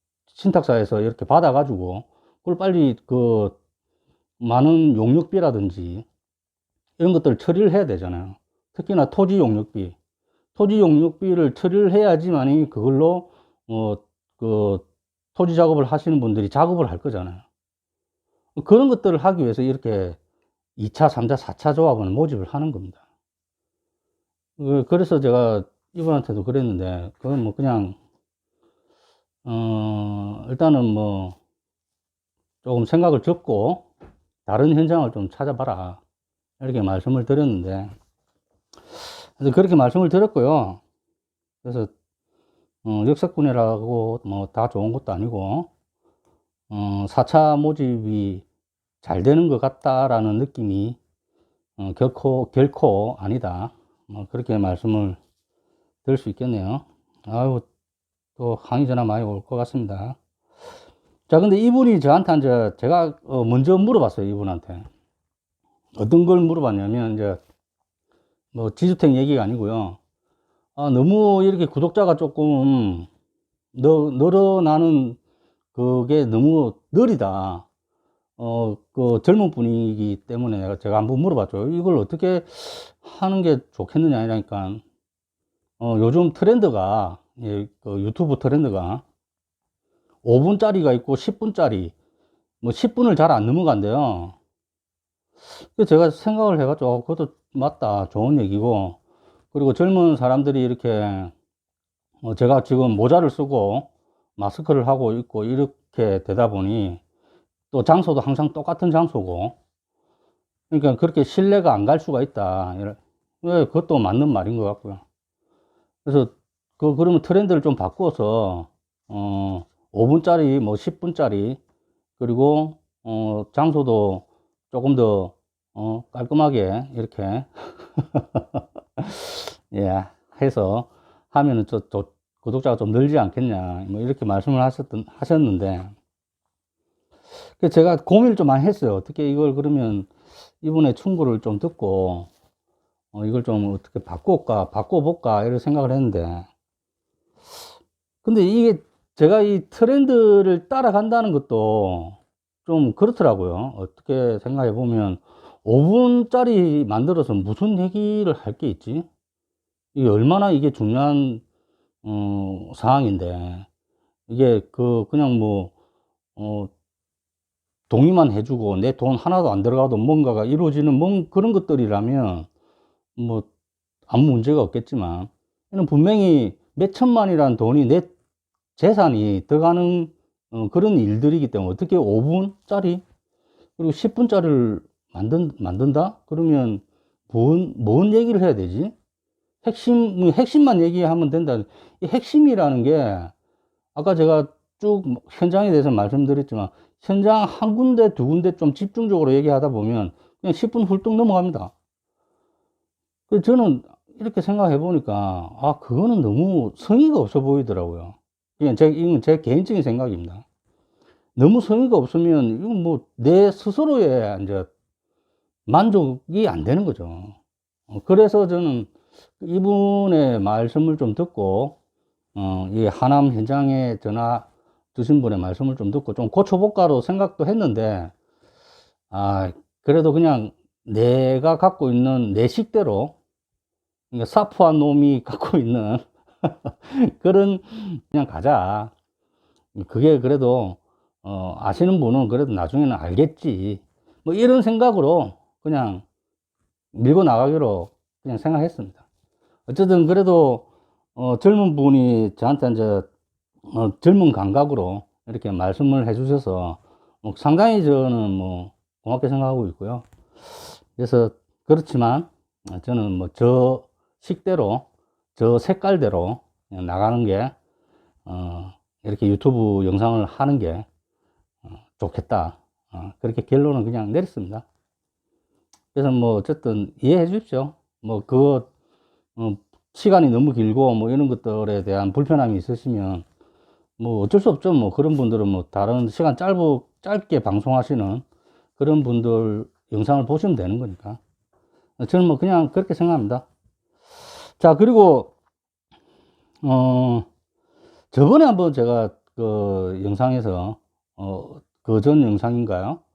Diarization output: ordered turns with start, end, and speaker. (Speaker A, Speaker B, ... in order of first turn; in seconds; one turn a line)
Speaker A: 0.3-3.6
Speaker A: 4.4-6.1
Speaker A: 7.0-10.0
Speaker A: 10.6-17.4
Speaker A: 18.6-20.2
Speaker A: 20.8-23.0
Speaker A: 24.6-28.0
Speaker A: 29.4-31.4
Speaker A: 32.6-33.9
Speaker A: 34.5-36.0
Speaker A: 36.6-37.9
Speaker A: 39.0-40.8
Speaker A: 41.6-41.9
Speaker A: 42.8-45.7
Speaker A: 46.7-48.5
Speaker A: 49.0-51.0
Speaker A: 51.8-55.2
Speaker A: 56.0-57.6
Speaker A: 58.4-60.2
Speaker A: 61.3-64.9
Speaker A: 66.0-67.4
Speaker A: 68.5-70.0
Speaker A: 70.8-73.1
Speaker A: 73.7-75.2
Speaker A: 75.7-77.7
Speaker A: 78.4-84.8
Speaker A: 85.8-89.0
Speaker A: 90.2-91.9
Speaker A: 92.6-94.4
Speaker A: 95.6-99.0
Speaker A: 99.5-101.3
Speaker A: 102.2-107.0
Speaker A: 107.7-109.6
Speaker A: 110.7-115.0
Speaker A: 116.0-121.6
Speaker A: 122.2-135.9
Speaker A: 137.6-140.1
Speaker A: 140.6-142.3
Speaker A: 143.1-146.5
Speaker A: 148.2-159.1
Speaker A: 159.9-161.4
Speaker A: 162.0-163.7
Speaker A: 164.3-165.7
Speaker A: 166.4-166.7
Speaker A: 167.9-172.5
Speaker A: 173.2-173.5
Speaker A: 174.1-178.1
Speaker A: 178.8-183.0
Speaker A: 183.8-188.9
Speaker A: 189.6-193.3
Speaker A: 193.9-201.7
Speaker A: 203.3-210.4
Speaker A: 211.4-214.7
Speaker A: 215.7-217.4
Speaker A: 217.9-221.8
Speaker A: 222.3-228.1
Speaker A: 229.1-233.2
Speaker A: 234.1-238.9
Speaker A: 239.8-246.0
Speaker A: 246.9-249.0
Speaker A: 249.7-253.1
Speaker A: 253.7-260.1
Speaker A: 260.9-267.6
Speaker A: 268.3-270.9
Speaker A: 272.0-274.6
Speaker A: 275.9-278.7
Speaker A: 279.4-283.2
Speaker A: 284.0-288.2
Speaker A: 288.8-291.2
Speaker A: 292.0-293.4
Speaker A: 294.6-295.3
Speaker A: 296.6-297.3
Speaker A: 298.1-303.0